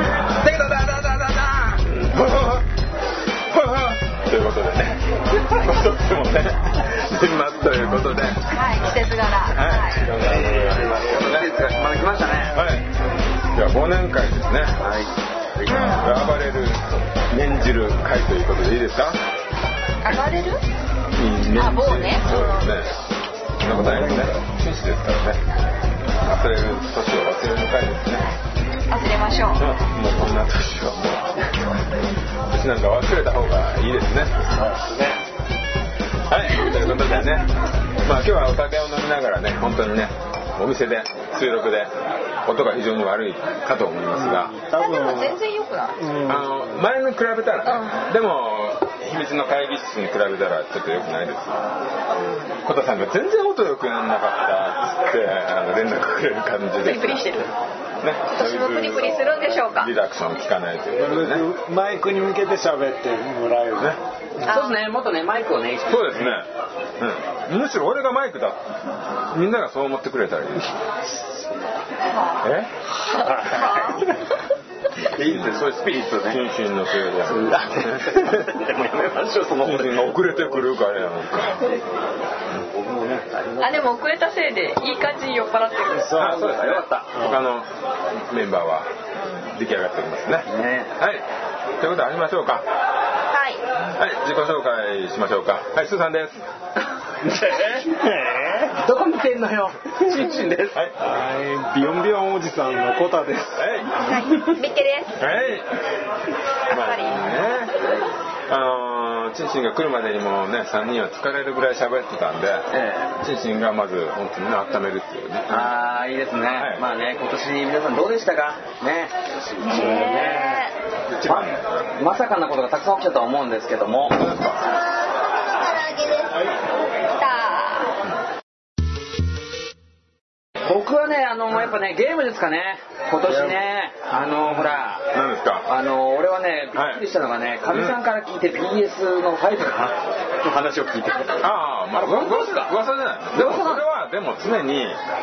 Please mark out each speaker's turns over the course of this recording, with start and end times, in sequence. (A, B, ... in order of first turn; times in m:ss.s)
0:00.4-0:01.8 A
0:01.8-0:02.7 B
0:03.5-0:08.6 B
0:08.5-0:10.1 C
0:09.5-0:11.7 B
0:10.2-0:12.6 A
0:12.5-0:12.9 B
0:13.5-0:14.8 B
0:14.8-0:16.1 A
0:15.7-0:16.1 C
0:15.9-0:19.2 B
0:20.0-0:20.6 C
0:21.1-0:23.0 B
0:21.5-0:22.7 C
0:23.6-0:25.4 B
0:23.7-0:24.3 D
0:26.2-0:28.3 B
0:28.9-0:29.6 C
0:29.6-0:31.8 B
0:32.5-0:34.5 B
0:34.6-0:35.2 D
0:36.3-0:37.5 B
0:38.0-0:44.5 B
0:44.1-0:45.4 D
0:44.8-0:46.0 C
0:46.0-0:46.8 D
0:46.3-0:51.6 B
0:47.6-0:48.0 C
0:52.6-0:57.5 B
0:56.8-0:57.5 C
0:58.0-1:01.5 B
0:58.3-0:59.9 C
1:00.9-1:04.0 D
1:04.4-1:04.8 C
1:04.5-1:06.4 A
1:05.9-1:08.7 B
1:09.3-1:10.7 B
1:12.1-1:12.5 C
1:12.4-1:12.7 B
1:13.1-1:14.2 C
1:13.3-1:13.9 A
1:15.0-1:16.4 A
1:15.2-1:15.6 B
1:16.2-1:18.5 B
1:17.2-1:20.7 A
1:19.6-1:21.7 B
1:22.5-1:23.9 A
1:23.6-1:26.4 C
1:25.9-1:27.4 D
1:26.2-1:28.9 B
1:26.2-1:27.3 A
1:29.2-1:29.5 C
1:29.5-1:31.3 B
1:30.5-1:30.9 A
1:31.8-1:32.6 B
1:33.3-1:33.6 C
1:34.0-1:36.4 B
1:37.2-1:37.9 A
1:37.3-1:38.8 D
1:38.8-1:40.8 A
1:41.0-1:43.7 D
1:43.6-1:44.1 B
1:44.0-1:45.2 C
1:45.2-1:45.7 B
1:46.7-1:47.8 B
1:46.7-1:47.3 C
1:47.8-1:48.1 A
1:48.5-1:55.7 B
1:52.7-1:53.2 A
1:55.5-2:00.7 A
1:56.5-1:56.9 B
1:59.6-2:00.4 D
1:59.6-2:00.7 C
2:01.1-2:01.8 B
2:01.3-2:04.2 A
2:04.1-2:04.7 B
2:05.5-2:06.3 C
2:07.1-2:08.0 C
2:10.6-2:15.1 A
2:13.3-2:13.6 D
2:14.5-2:15.7 B
2:15.7-2:22.7 A
2:16.8-2:17.0 B
2:17.7-2:18.0 B
2:21.4-2:25.0 B
2:23.3-2:23.8 A